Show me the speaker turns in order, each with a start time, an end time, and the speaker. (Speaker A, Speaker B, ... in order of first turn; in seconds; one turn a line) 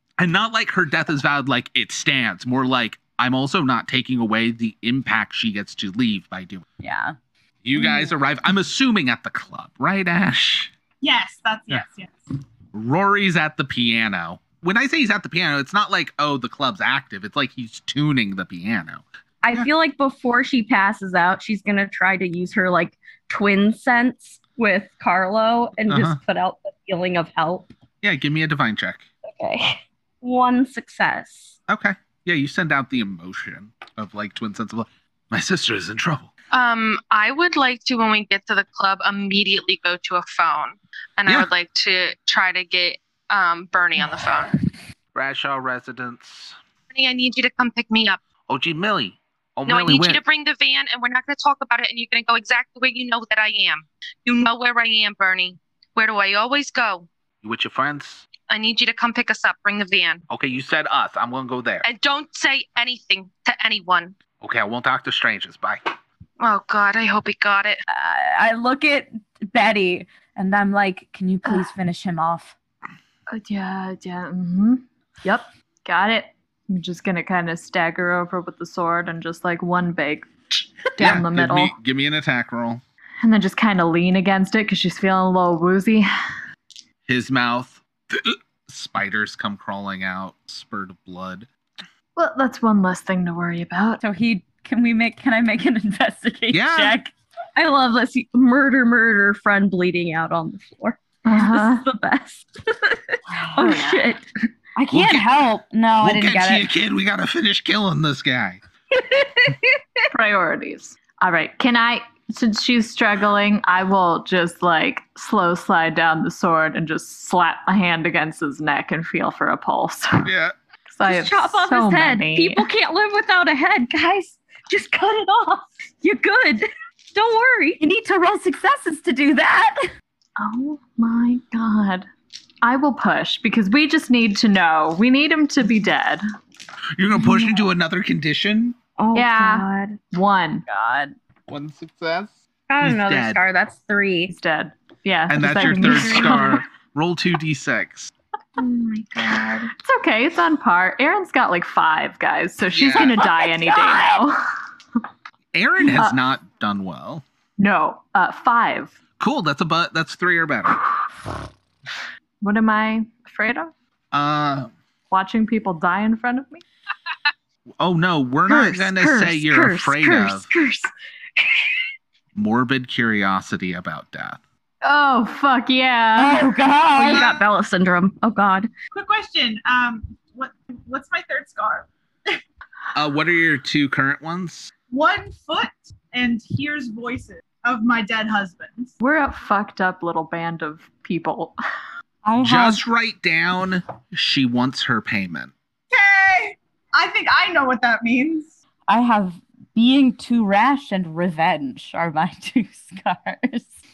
Speaker A: 0.2-6.6
Speaker B: 6.8-7.1
Speaker A: 7.6-10.7
Speaker C: 11.0-12.2
Speaker A: 12.7-19.7
Speaker D: 19.4-27.7
Speaker A: 25.9-26.2
Speaker A: 28.0-29.1
Speaker D: 29.2-31.5
Speaker A: 31.7-36.3
Speaker E: 36.5-44.5
Speaker A: 45.1-46.5
Speaker E: 46.9-48.2
Speaker A: 48.5-50.2
Speaker E: 49.6-57.1
Speaker A: 57.4-58.2
Speaker E: 58.5-60.2
Speaker A: 60.3-61.9
Speaker E: 61.8-64.2
Speaker A: 64.4-65.9
Speaker E: 66.4-67.8
Speaker B: 67.9-72.5
Speaker F: 73.3-80.3
Speaker F: 80.9-81.8
Speaker A: 81.0-82.8
Speaker F: 83.2-86.1
Speaker A: 87.1-91.5
Speaker F: 92.2-94.0
Speaker B: 94.0-97.1
Speaker A: 96.5-97.0
Speaker D: 97.5-104.2
Speaker F: 101.2-101.8
Speaker F: 103.4-104.2
Speaker B: 104.8-106.7
Speaker A: 104.9-105.3
Speaker A: 106.0-108.6
Speaker D: 108.9-109.8
Speaker F: 110.1-120.3
Speaker A: 120.2-120.5
Speaker F: 120.9-122.7
Speaker D: 121.0-127.8
Speaker B: 127.8-129.9
Speaker F: 130.4-132.1
Speaker F: 132.6-136.2
Speaker A: 136.9-138.8
Speaker F: 137.1-137.6
Speaker D: 139.0-140.0
Speaker F: 139.1-140.6
Speaker B: 140.7-141.1
Speaker A: 141.5-143.4
Speaker D: 142.7-144.3
Speaker F: 144.3-146.6
Speaker A: 145.3-148.1
Speaker D: 145.6-146.4
Speaker D: 148.6-149.7
Speaker F: 149.1-154.5
Speaker A: 152.7-153.3
Speaker D: 153.3-154.1
Speaker A: 155.5-157.2
Speaker F: 155.8-156.2
Speaker F: 157.6-159.0
Speaker A: 159.2-160.8
Speaker F: 162.4-163.7
Speaker A: 164.1-164.7
Speaker F: 165.1-166.6
Speaker A: 167.8-170.5
Speaker D: 168.5-171.7
Speaker A: 172.3-174.4
Speaker F: 174.8-176.5
Speaker B: 176.2-177.3
Speaker D: 176.9-178.7
Speaker C: 177.2-177.4
Speaker C: 178.9-182.4
Speaker A: 182.9-184.7
Speaker C: 184.9-188.9
Speaker F: 189.0-191.5
Speaker B: 192.2-192.8
Speaker A: 192.4-195.5
Speaker C: 195.9-198.6
Speaker B: 198.9-203.7